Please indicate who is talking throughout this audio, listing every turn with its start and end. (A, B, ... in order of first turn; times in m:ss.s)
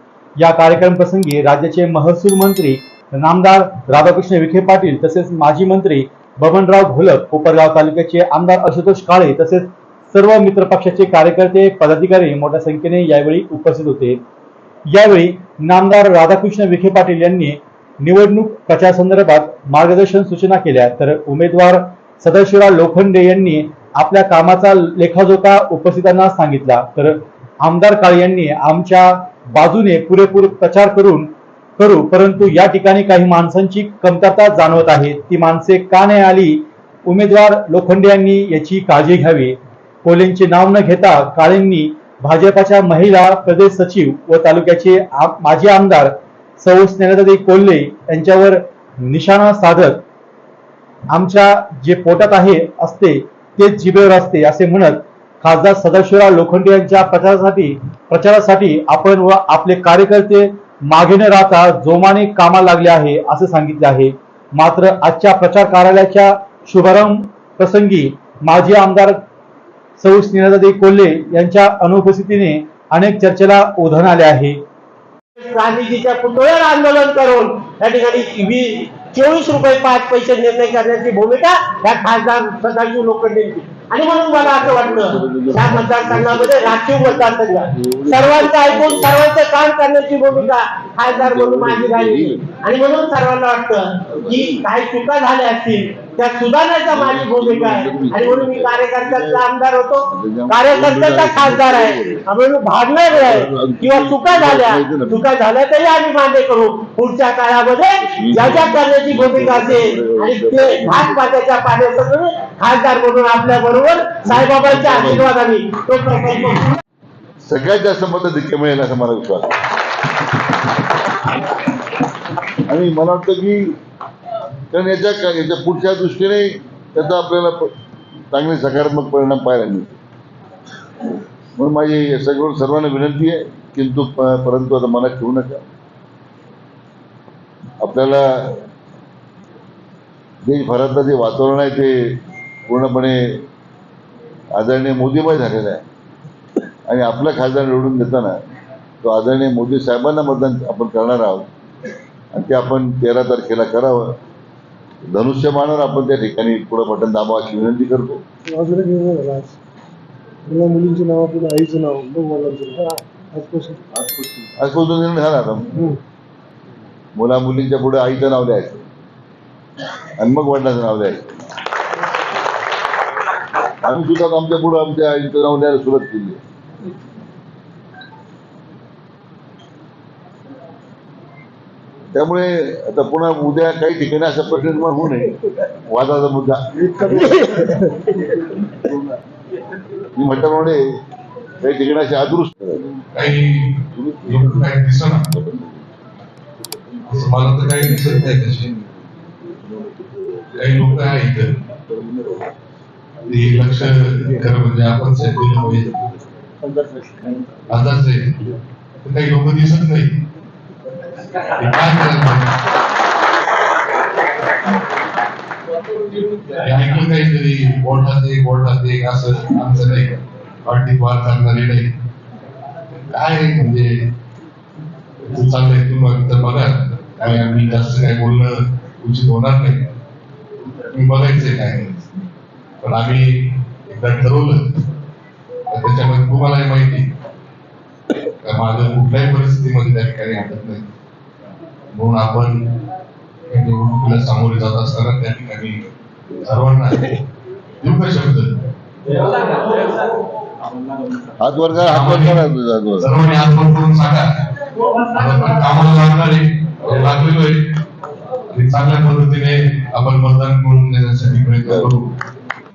0:00.4-0:14.2 A
0:14.9-0:50.0 A
0:51.1-1:09.2 A
1:10.0-1:14.6 A
1:15.4-1:56.8 B
1:24.4-1:29.2 C
1:31.1-1:32.4 C
1:34.1-1:34.7 C
1:36.9-1:39.5 C
1:40.1-1:42.2 C
1:43.1-1:45.3 C
1:48.0-1:51.3 C
1:54.2-1:55.3 C
1:57.4-1:59.5 C
2:02.7-2:03.8 C
2:04.7-2:07.7 C
2:08.3-2:09.9 C
2:11.6-2:15.6 C
2:17.8-2:18.6 C
2:20.4-2:23.4 C
2:24.6-2:25.8 C
2:26.9-2:28.4 C
2:29.0-2:31.5 C
2:32.3-2:34.1 C
2:35.0-2:38.2 C
2:38.5-2:39.6 D
2:40.5-2:44.0 D
2:44.6-2:45.7 C
2:47.2-2:48.8 C
2:50.2-2:51.3 C
2:53.8-2:56.4 C
3:02.1-3:07.6 C
3:06.8-3:08.2 D
3:10.2-3:10.8 C
3:11.6-3:12.8 C
3:13.2-3:15.2 E
3:15.4-3:15.7 C
3:17.1-3:18.7 E
3:20.6-3:21.4 E
3:21.9-3:22.4 C
3:23.3-3:26.0 E
3:27.7-3:28.4 E
3:29.0-3:30.1 E
3:31.6-3:32.5 E
3:36.6-3:41.8 E
3:43.1-3:43.8 E
3:45.3-3:48.5 E
3:49.0-3:49.8 E
3:50.9-3:52.0 E
3:52.8-3:54.6 E
3:55.7-3:57.0 E
3:58.4-4:00.8 E
4:01.9-4:02.5 E
4:03.5-4:05.8 E
4:06.5-4:07.1 E
4:07.8-4:08.5 E
4:11.4-4:13.1 C
4:11.8-4:12.4 E
4:13.1-4:14.2 E
4:15.2-4:17.6 E
4:18.5-4:22.0 E
4:21.7-4:21.9 C